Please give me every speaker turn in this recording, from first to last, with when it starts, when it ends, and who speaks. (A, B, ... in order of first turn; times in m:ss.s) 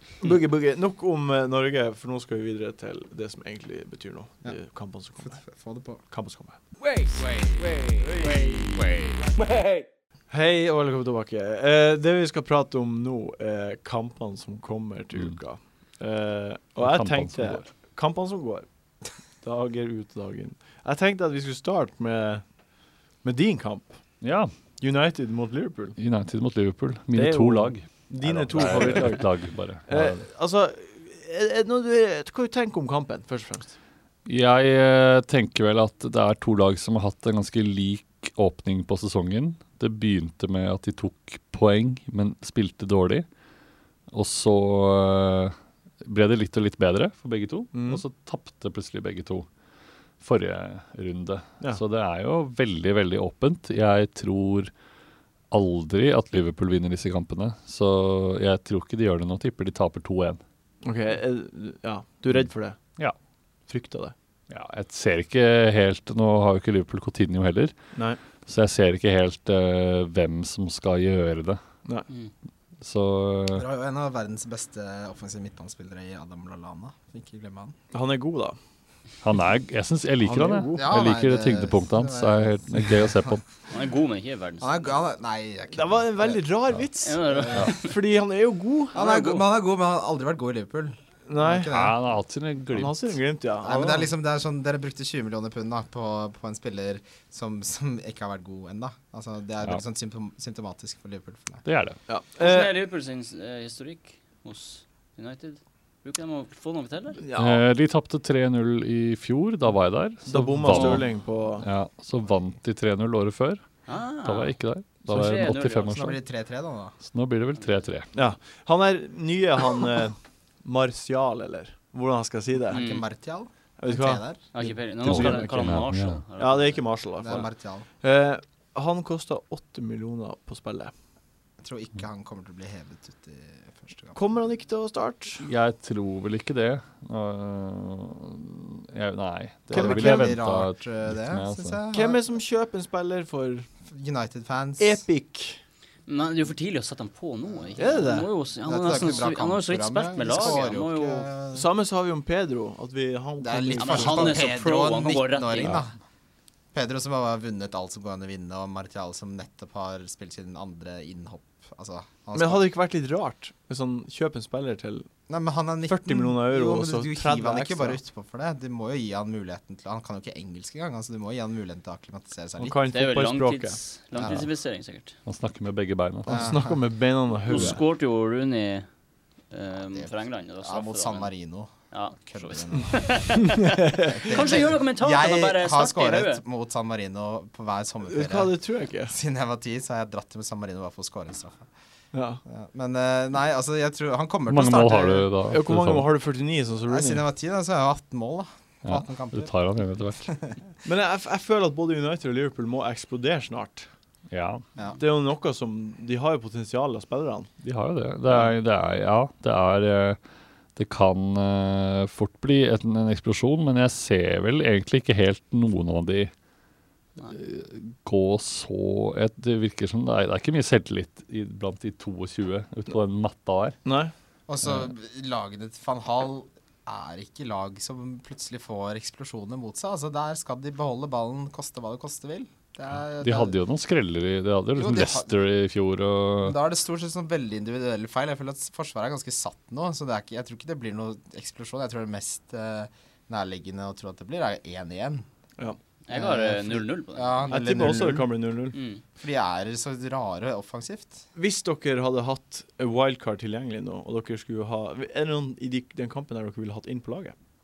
0:00.2-0:05.4 A
0:05.2-0:06.0 B
0:06.1-0:06.6 A
0:06.8-0:09.3 C
0:08.1-0:08.8 A
0:10.3-0:18.7 A
0:16.8-0:17.7 D
0:19.4-0:22.5 A
0:23.2-0:24.2 A
0:24.2-0:24.5 D
0:24.8-0:26.0 A
0:26.0-0:30.2 D
0:27.1-0:33.7 A
0:34.2-0:43.2 D
0:44.1-0:49.5 D
0:47.7-0:48.0 A
0:50.2-0:54.7 D
0:55.5-1:00.4 D
1:00.8-1:02.8 A
1:03.7-1:04.1 A
1:04.5-1:07.7 D
1:08.4-1:11.6 D
1:12.8-1:13.7 D
1:13.5-1:17.7 B
1:17.9-1:18.6 A
1:19.2-1:23.4 D
1:20.2-1:20.8 A
1:20.7-1:23.3 B
1:23.7-1:24.9 C
1:24.6-1:26.4 B
1:25.7-1:29.0 A
1:27.0-1:27.9 C
1:28.9-1:31.9 B
1:28.9-1:29.4 C
1:31.3-1:31.7 A
1:31.6-1:33.1 D
1:32.7-1:34.1 A
1:33.6-1:41.6 B
1:41.6-1:42.0 D
1:42.1-1:42.7 A
1:42.4-1:47.2 C
1:47.2-1:47.6 A
1:47.4-1:53.6 D
1:50.2-1:51.6 A
1:50.6-1:51.0 C
1:53.9-1:55.9 C
1:54.2-1:56.2 D
1:55.8-1:56.9 B
1:57.0-1:58.1 D
1:58.1-2:02.8 A
2:02.7-2:04.4 B
2:02.7-2:03.0 C
2:03.8-2:05.4 A
2:04.5-2:07.4 C
2:05.0-2:06.2 D
2:06.4-2:07.4 A
2:07.2-2:07.8 B
2:08.0-2:10.9 A
2:11.6-2:14.2 B
2:14.1-2:15.4 A
2:15.4-2:21.8 D
2:19.7-2:20.4 A
2:19.7-2:22.2 B
2:21.9-2:23.7 A
2:23.9-2:25.0 B
2:24.8-2:25.6 A
2:26.1-2:31.3 C
2:27.8-2:28.3 A
2:28.6-2:31.7 B
2:31.5-2:34.5 A
2:33.4-2:35.9 B
2:33.7-2:35.8 C
2:36.7-2:42.6 B
2:42.3-2:45.1 A
2:45.3-2:52.8 B
2:45.9-2:48.0 A
2:52.6-2:53.8 A
2:52.9-2:55.2 C
2:54.1-2:54.4 B
2:55.2-2:56.6 D
2:56.3-2:56.6 B
2:56.3-2:57.8 A
2:57.4-2:58.9 C
2:57.5-2:57.7 D
2:59.5-3:01.3 C
2:59.9-3:03.5 B
3:01.9-3:06.4 C
3:03.8-3:04.3 A
3:04.0-3:08.6 B
3:08.1-3:09.1 A
3:09.1-3:11.7 B
3:12.1-3:12.4 A
3:12.4-3:15.3 B
3:14.5-3:16.1 D
3:15.5-3:17.2 A
3:16.9-3:19.5 B
3:18.8-3:20.3 D
3:20.3-3:20.6 B
3:20.8-3:23.9 A
3:24.3-3:24.6 D
3:25.0-3:27.5 A
3:27.6-3:30.2 D
3:30.8-3:36.3 D
3:37.2-3:43.8 D
3:43.8-3:44.1 A
3:44.5-3:53.6 B
3:44.6-3:44.9 D
3:53.2-3:56.6 D
3:54.8-3:55.3 B
3:56.4-4:05.2 B
4:06.0-4:07.5 C
4:06.1-4:08.3 B
4:07.5-4:08.8 A
4:08.7-4:09.0 C
4:09.2-4:11.2 B
4:11.3-4:17.3 A